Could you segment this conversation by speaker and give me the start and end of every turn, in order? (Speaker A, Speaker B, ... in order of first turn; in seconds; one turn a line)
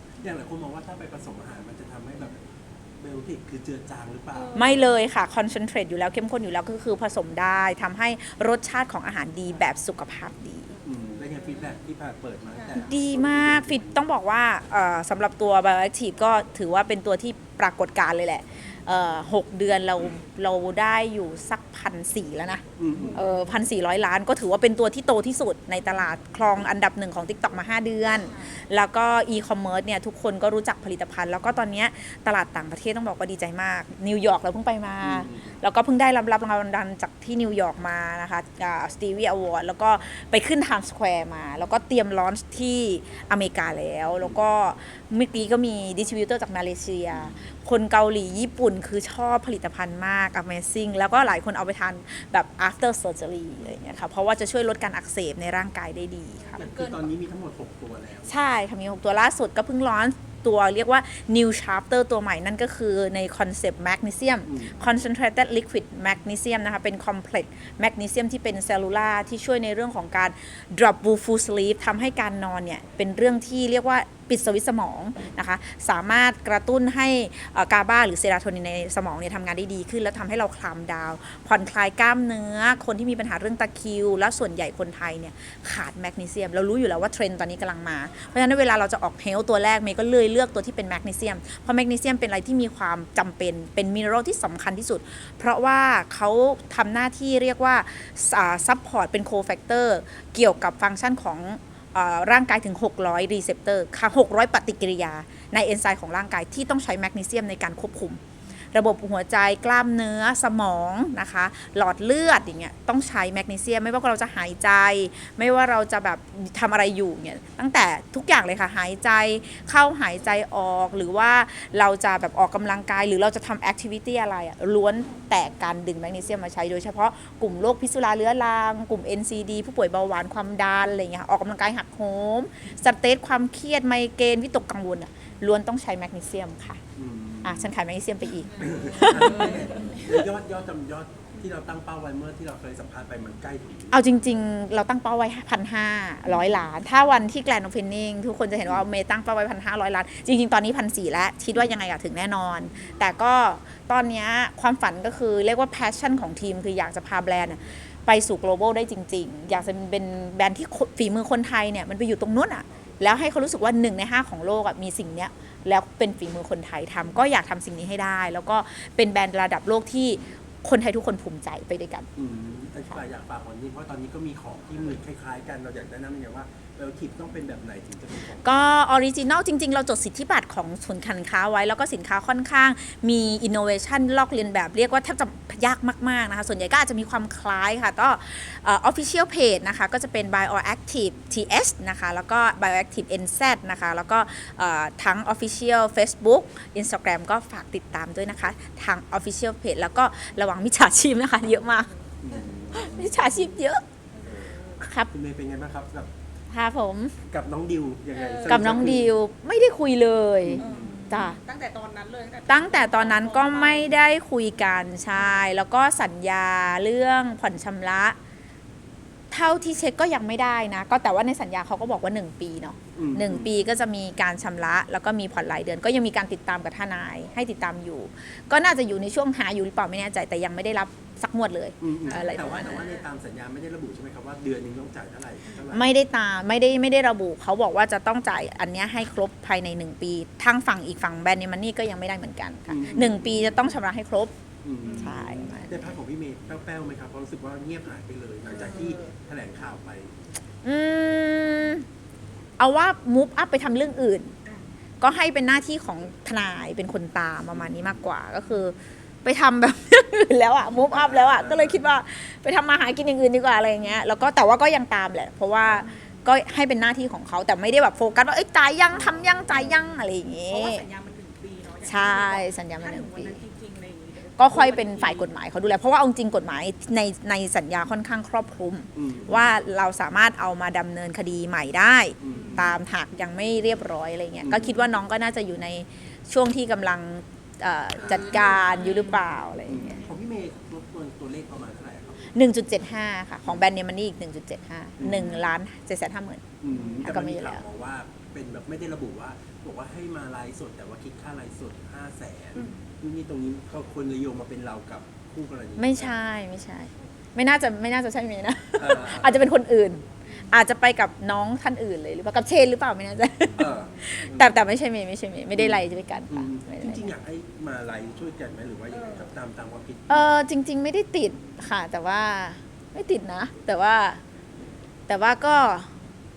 Speaker A: 0.2-2.4
Speaker A: 3.0-4.6
Speaker B: 4.4-4.8
Speaker C: 4.5-10.7
Speaker A: 10.8-14.0
Speaker C: 12.7-56.6
Speaker A: 22.8-23.2
Speaker A: 35.0-35.6
Speaker A: 47.1-47.5
Speaker B: 56.5-57.0
Speaker A: 56.6-58.4
Speaker C: 58.3-108.2
Speaker A: 64.5-64.7
Speaker C: 108.7-136.8
Speaker A: 137.0-137.7
Speaker C: 137.4-139.6
Speaker A: 138.6-144.0
Speaker B: 139.0-139.8
Speaker C: 143.9-172.1
Speaker A: 146.3-146.6
Speaker A: 172.2-178.5
Speaker C: 178.4-201.9
Speaker A: 202.2-203.3
Speaker C: 202.7-203.8
Speaker B: 204.2-204.8
Speaker A: 204.2-206.1
Speaker C: 204.8-205.1
Speaker C: 206.5-207.2
Speaker A: 207.3-209.1
Speaker B: 208.2-208.7
Speaker C: 208.5-211.4
Speaker A: 210.4-211.1
Speaker B: 210.6-213.9
Speaker C: 212.5-218.2
Speaker C: 219.3-232.8
Speaker A: 223.0-223.5
Speaker A: 231.8-235.9
Speaker B: 232.2-232.9
Speaker C: 235.7-244.3
Speaker A: 242.7-243.5
Speaker A: 244.6-250.1
Speaker C: 244.9-245.9
Speaker B: 248.6-248.9
Speaker C: 250.6-251.9
Speaker C: 252.6-254.3
Speaker C: 255.0-270.9
Speaker A: 257.6-257.9
Speaker A: 260.9-261.9
Speaker B: 270.5-275.3
Speaker C: 271.9-273.4
Speaker C: 274.4-290.1
Speaker A: 279.0-279.5
Speaker A: 282.2-282.8
Speaker B: 282.3-282.7
Speaker A: 284.4-284.8
Speaker A: 288.0-288.3
Speaker B: 288.3-289.0
Speaker A: 289.7-292.2
Speaker C: 292.3-296.4
Speaker A: 295.0-295.4
Speaker A: 296.6-306.2
Speaker B: 296.7-297.0
Speaker C: 297.0-297.6
Speaker C: 305.8-317.1
Speaker A: 308.8-309.5
Speaker A: 313.6-314.6
Speaker A: 315.6-320.3
Speaker C: 320.1-324.2
Speaker C: 325.1-325.9